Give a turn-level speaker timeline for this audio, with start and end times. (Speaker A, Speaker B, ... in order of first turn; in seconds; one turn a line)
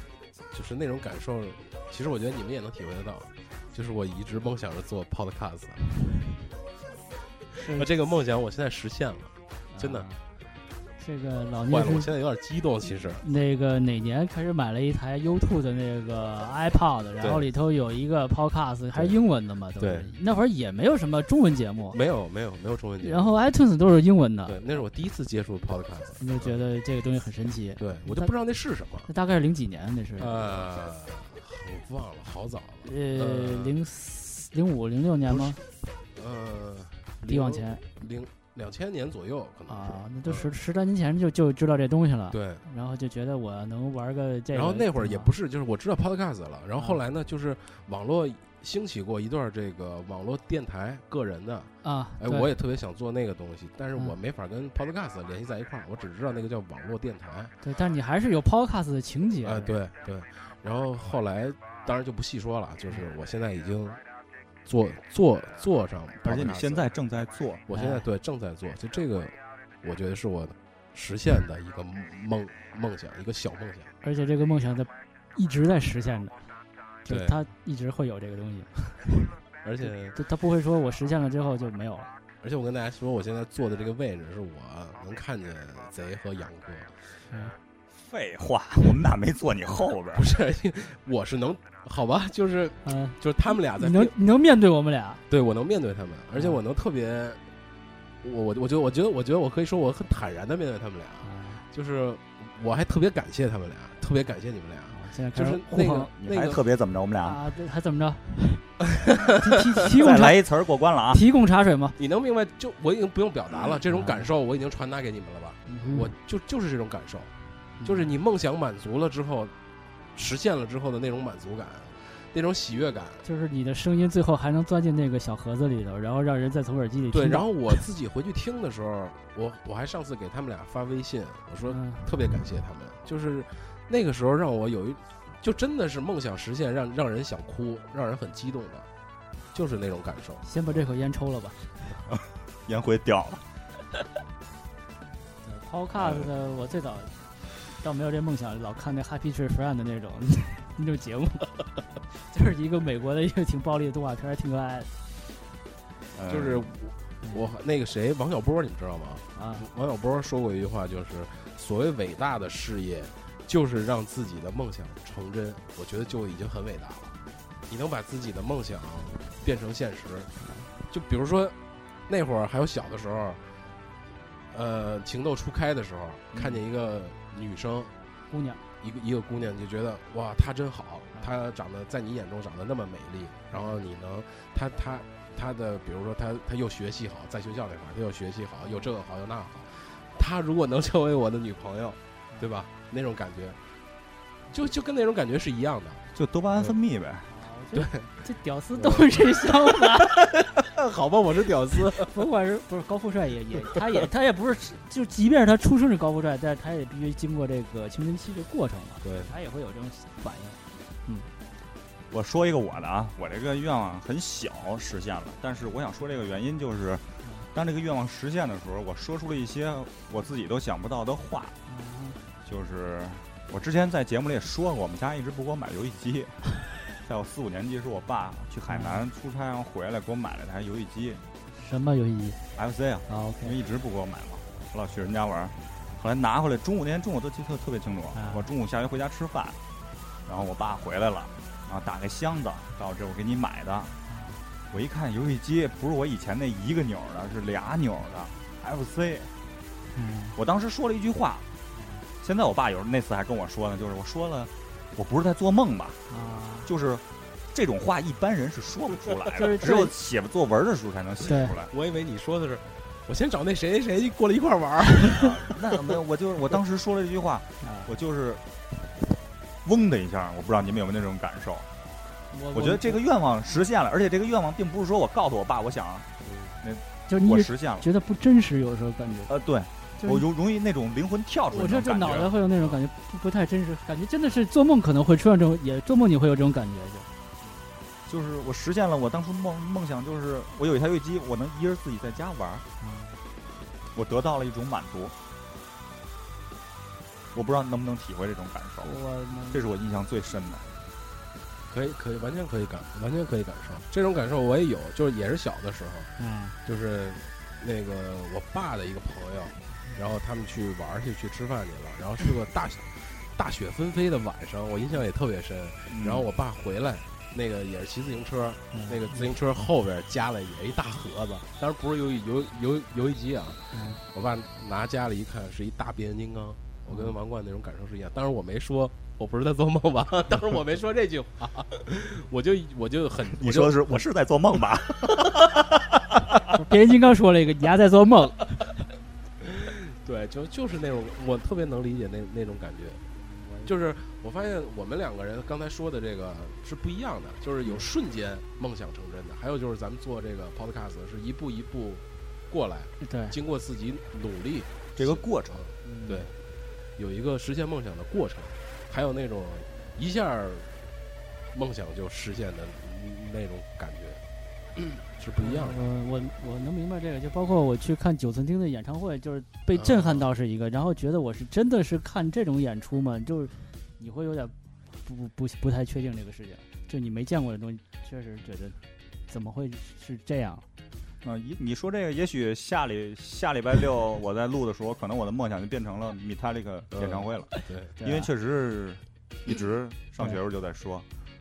Speaker A: 0.5-5.8
Speaker A: 7.5-10.1
Speaker B: 7.6-7.9
Speaker B: 9.7-10.2
Speaker B: 11.0-12.1
Speaker A: 11.7-13.2
Speaker B: 13.2-22.0
Speaker A: 17.2-17.4
Speaker A: 19.8-20.1
Speaker A: 21.9-23.3
Speaker B: 23.0-24.6
Speaker A: 24.4-26.6
Speaker B: 26.2-28.3
Speaker A: 27.8-29.1
Speaker B: 29.1-30.4
Speaker A: 30.2-33.8
Speaker B: 32.8-35.6
Speaker A: 35.3-40.5
Speaker B: 37.3-37.8
Speaker B: 39.7-45.3
Speaker A: 42.3-42.6
Speaker A: 44.5-57.5
Speaker B: 51.8-52.5
Speaker B: 57.6-59.7
Speaker A: 59.4-64.0
Speaker A: 64.7-66.9
Speaker C: 66.2-67.6
Speaker A: 67.7-73.9
Speaker B: 67.7-68.0
Speaker B: 74.0-76.5
Speaker B: 77.0-78.8
Speaker A: 77.1-77.3
Speaker A: 79.6-80.2
Speaker B: 80.1-82.1
Speaker A: 82.4-86.9
Speaker B: 87.3-87.5
Speaker C: 87.9-90.3
Speaker A: 90.1-94.1
Speaker B: 92.8-95.2
Speaker A: 95.3-97.4
Speaker B: 96.3-96.6
Speaker A: 98.2-106.6
Speaker B: 101.2-101.6
Speaker B: 104.9-106.1
Speaker C: 106.2-107.4
Speaker B: 107.2-110.4
Speaker C: 109.9-111.2
Speaker B: 111.1-112.0
Speaker A: 112.0-117.3
Speaker B: 113.9-114.3
Speaker B: 115.7-116.1
Speaker B: 117.8-118.1
Speaker A: 117.8-119.5
Speaker A: 120.1-123.2
Speaker B: 123.2-127.5
Speaker A: 127.1-138.9
Speaker B: 131.7-132.1
Speaker A: 139.5-140.4
Speaker B: 140.4-142.0
Speaker C: 142.7-143.4
Speaker B: 145.4-154.9
Speaker C: 146.0-146.3
Speaker C: 156.1-156.7
Speaker A: 156.3-167.1
Speaker B: 159.3-159.6
Speaker A: 167.7-170.3
Speaker B: 170.4-170.7
Speaker A: 170.9-173.4
Speaker A: 174.5-177.9
Speaker B: 178.3-178.6
Speaker A: 178.8-193.7
Speaker A: 194.5-196.0
Speaker C: 196.1-197.3
Speaker B: 197.3-200.2
Speaker A: 197.7-202.1
Speaker B: 202.0-211.3
Speaker A: 209.0-209.3
Speaker C: 212.1-221.6
Speaker B: 217.2-217.5
Speaker B: 221.7-222.2
Speaker C: 222.4-231.2
Speaker B: 228.7-229.1
Speaker B: 231.6-232.4
Speaker C: 232.6-239.6
Speaker B: 233.1-233.5
Speaker B: 238.1-238.5
Speaker C: 240.2-243.9
Speaker B: 244.1-244.4
Speaker C: 244.7-249.3
Speaker B: 249.9-250.4
Speaker C: 250.3-251.5
Speaker B: 251.7-252.0
Speaker C: 252.2-256.0
Speaker B: 256.1-256.7
Speaker C: 256.6-261.7
Speaker B: 259.4-259.9
Speaker B: 261.3-261.5
Speaker A: 261.7-265.3
Speaker C: 265.2-268.4
Speaker B: 267.6-267.9
Speaker C: 269.6-271.7
Speaker B: 272.3-273.0
Speaker C: 272.5-276.1
Speaker A: 276.2-276.5
Speaker C: 276.6-277.9
Speaker B: 277.1-279.3
Speaker C: 279.3-282.8
Speaker B: 280.0-280.2
Speaker B: 281.5-287.1
Speaker C: 288.1-292.6
Speaker B: 292.8-293.2
Speaker C: 293.9-295.1
Speaker C: 297.3-298.9
Speaker B: 298.8-299.6
Speaker C: 299.5-300.6
Speaker A: 301.7-306.1
Speaker B: 306.2-306.6
Speaker A: 306.6-334.0
Speaker C: 315.9-316.3
Speaker B: 318.7-319.3
Speaker B: 323.7-324.0
Speaker C: 333.3-335.6
Speaker B: 336.5-338.7
Speaker A: 339.4-343.0
Speaker B: 343.2-343.7
Speaker A: 343.6-356.3
Speaker B: 353.0-353.4
Speaker C: 354.9-355.6
Speaker B: 355.8-356.3
Speaker A: 356.9-360.9
Speaker A: 361.5-364.2
Speaker A: 365.0-365.8
Speaker B: 365.4-378.8
Speaker A: 369.7-370.3
Speaker B: 379.3-380.6
Speaker C: 381.2-391.1
Speaker A: 386.9-387.9
Speaker B: 388.0-388.3